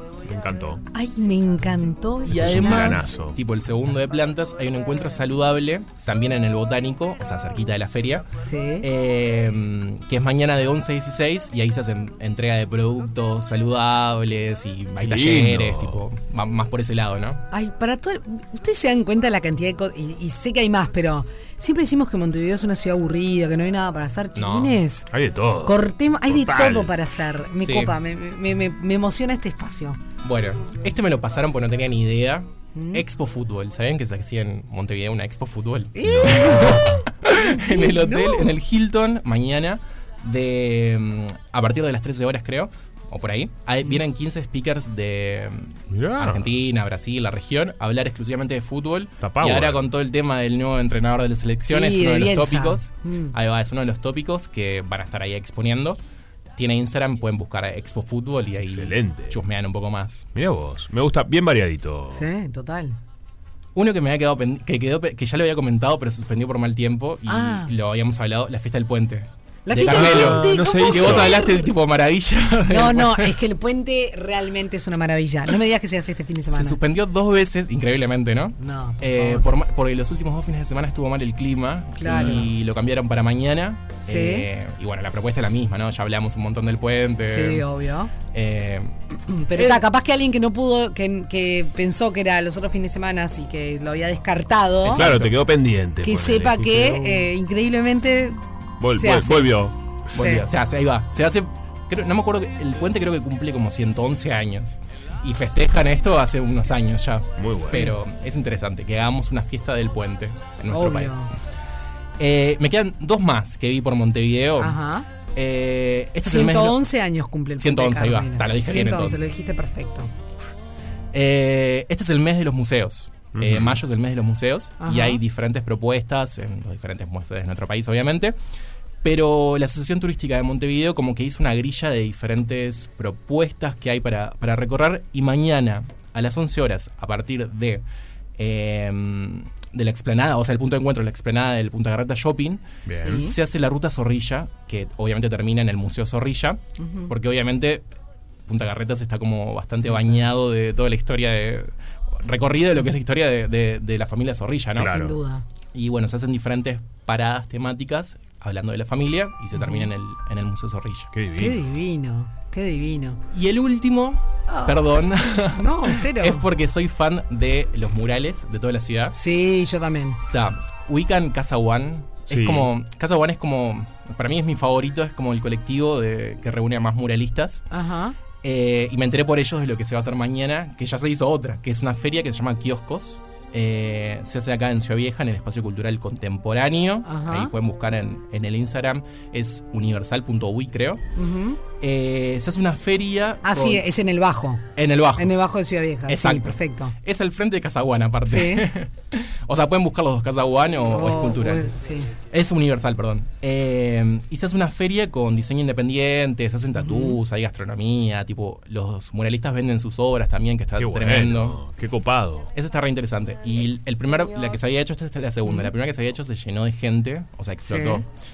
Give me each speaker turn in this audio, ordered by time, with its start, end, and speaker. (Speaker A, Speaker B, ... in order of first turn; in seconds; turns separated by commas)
Speaker A: 0.2-0.8, Speaker B: 0.9-3.1, Speaker C: 2.2-8.2, Speaker A: 2.3-3.4, Speaker B: 8.4-8.9, Speaker C: 8.8-17.4, Speaker A: 15.0-16.1, Speaker B: 17.5-25.1, Speaker C: 24.3-24.8, Speaker A: 25.1-26.9, Speaker B: 25.6-30.0, Speaker C: 27.6-27.9, Speaker C: 30.2-56.0, Speaker B: 32.7-33.0, Speaker B: 36.0-38.5, Speaker A: 36.0-37.0, Speaker A: 45.9-46.5, Speaker A: 49.2-49.9, Speaker B: 51.6-53.4, Speaker C: 56.6-60.2, Speaker A: 58.6-59.4, Speaker A: 60.3-62.2, Speaker B: 62.1-63.0, Speaker C: 63.7-73.4, Speaker B: 67.2-67.7, Speaker B: 69.6-71.7, Speaker A: 69.7-71.4, Speaker B: 72.7-76.8, Speaker C: 76.5-87.7, Speaker B: 78.6-79.5, Speaker B: 82.0-82.5, Speaker B: 84.0-84.5, Speaker B: 87.2-88.1, Speaker C: 88.3-88.9, Speaker B: 89.3-95.0, Speaker C: 89.5-89.8, Speaker C: 94.8-95.3, Speaker A: 94.9-97.3, Speaker B: 96.0-98.4, Speaker A: 98.8-99.7, Speaker B: 99.0-99.6, Speaker C: 100.1-111.3, Speaker B: 100.1-100.5, Speaker A: 107.4-107.8, Speaker B: 107.7-108.0, Speaker B: 110.7-111.3, Speaker C: 112.2-114.8, Speaker B: 114.6-115.0, Speaker C: 115.3-116.8, Speaker B: 116.2-120.1, Speaker C: 117.6-119.2, Speaker C: 121.1-128.3, Speaker A: 123.3-123.8, Speaker B: 124.8-125.2, Speaker C: 129.0-137.8, Speaker C: 138.4-147.8, Speaker A: 142.8-143.2, Speaker B: 143.0-143.3, Speaker B: 146.8-147.1, Speaker C: 148.4-155.0, Speaker A: 154.7-155.2, Speaker B: 154.8-155.4, Speaker C: 155.7-161.1, Speaker B: 159.5-159.9, Speaker A: 161.1-161.6, Speaker B: 161.3-163.2, Speaker C: 163.3-169.2, Speaker B: 164.5-166.5, Speaker B: 169.1-170.2, Speaker C: 170.3-177.7, Speaker A: 172.3-172.7, Speaker B: 177.7-178.2, Speaker C: 178.4-191.0, Speaker B: 187.0-187.5, Speaker B: 191.2-191.6, Speaker C: 191.8-193.8, Speaker B: 193.4-194.6, Speaker C: 194.8-195.4, Speaker B: 195.2-196.9, Speaker C: 196.1-201.7, Speaker B: 198.2-198.7, Speaker B: 200.8-202.1, Speaker C: 202.3-211.6, Speaker B: 206.8-207.2, Speaker A: 210.8-212.5, Speaker C: 212.5-218.0, Speaker B: 215.4-215.7, Speaker B: 217.7-218.0